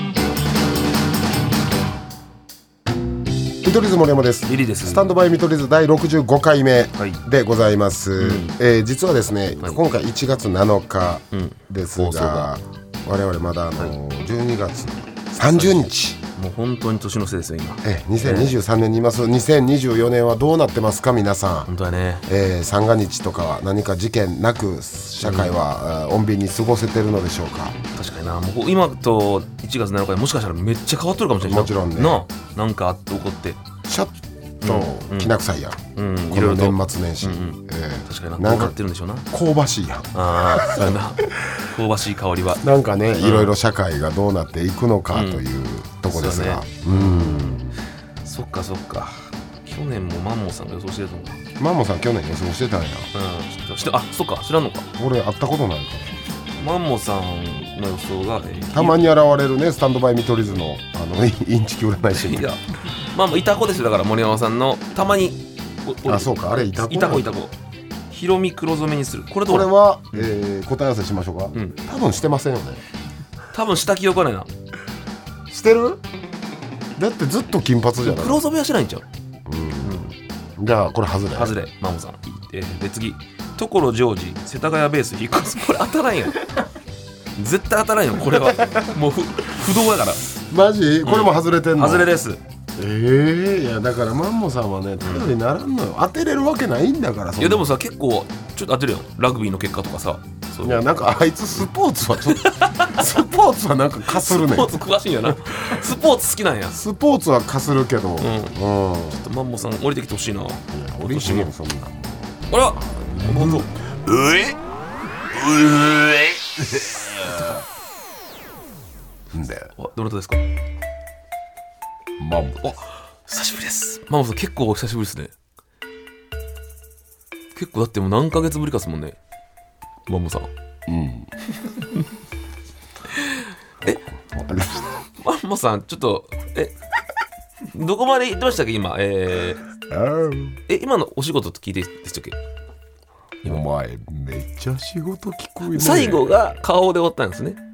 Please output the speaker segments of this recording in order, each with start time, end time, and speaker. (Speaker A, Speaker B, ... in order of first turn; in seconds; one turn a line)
Speaker A: 3.6-16.2
Speaker B: 4.4-5.1
Speaker B: 8.2-8.6
Speaker B: 11.3-12.5
Speaker B: 15.5-18.5
Speaker A: 17.8-21.7
Speaker B: 21.7-22.2
Speaker A: 22.2-27.8
Speaker B: 25.2-25.6
Speaker B: 27.9-33.6
Speaker A: 31.4-32.2
Speaker A: 33.8-38.8
Speaker B: 34.6-35.3
Speaker B: 35.9-39.3
Speaker A: 39.3-41.6
Speaker B: 40.1-42.6
Speaker A: 42.6-47.8
Speaker B: 43.2-43.5
Speaker B: 45.1-45.4
Speaker B: 46.1-47.6
Speaker B: 48.2-51.4
Speaker A: 51.6-53.1
Speaker B: 53.1-54.9
Speaker A: 55.0-56.2
Speaker B: 56.6-59.0
Speaker A: 58.7-62.5
Speaker B: 62.1-67.5
Speaker A: 66.1-67.3
Speaker B: 68.1-70.3
Speaker A: 69.5-72.8
Speaker B: 73.5-74.5
Speaker A: 75.5-76.0
Speaker A: 77.0-78.4
Speaker B: 78.0-79.0
Speaker A: 79.5-81.5
Speaker B: 79.8-80.1
Speaker B: 81.3-86.5
Speaker B: 87.4-90.3
Speaker A: 90.5-92.1
Speaker B: 91.0-92.4
Speaker A: 92.8-97.7
Speaker B: 95.0-95.3
Speaker B: 97.4-100.8
Speaker A: 100.6-104.8
Speaker B: 102.3-103.2
Speaker B: 104.1-106.8
Speaker A: 105.3-105.8
Speaker A: 106.7-109.2
Speaker B: 108.2-108.5
Speaker B: 109.1-111.5
Speaker A: 110.7-114.6
Speaker B: 112.5-113.7
Speaker A: 115.3-117.5
Speaker B: 115.6-116.3
Speaker B: 117.1-117.6
Speaker A: 119.3-119.7
Speaker B: 119.8-120.4
Speaker A: 122.2-122.8
Speaker B: 122.6-125.3
Speaker B: 127.5-129.2
Speaker B: 130.1-130.5
Speaker A: 130.9-131.3
Speaker B: 131.6-132.0
Speaker B: 133.1-134.0
Speaker A: 134.1-135.0
Speaker B: 135.2-136.7
Speaker B: 137.7-139.6
Speaker A: 139.8-140.6
Speaker B: 140.7-142.4
Speaker A: 143.4-146.4
Speaker B: 145.6-147.6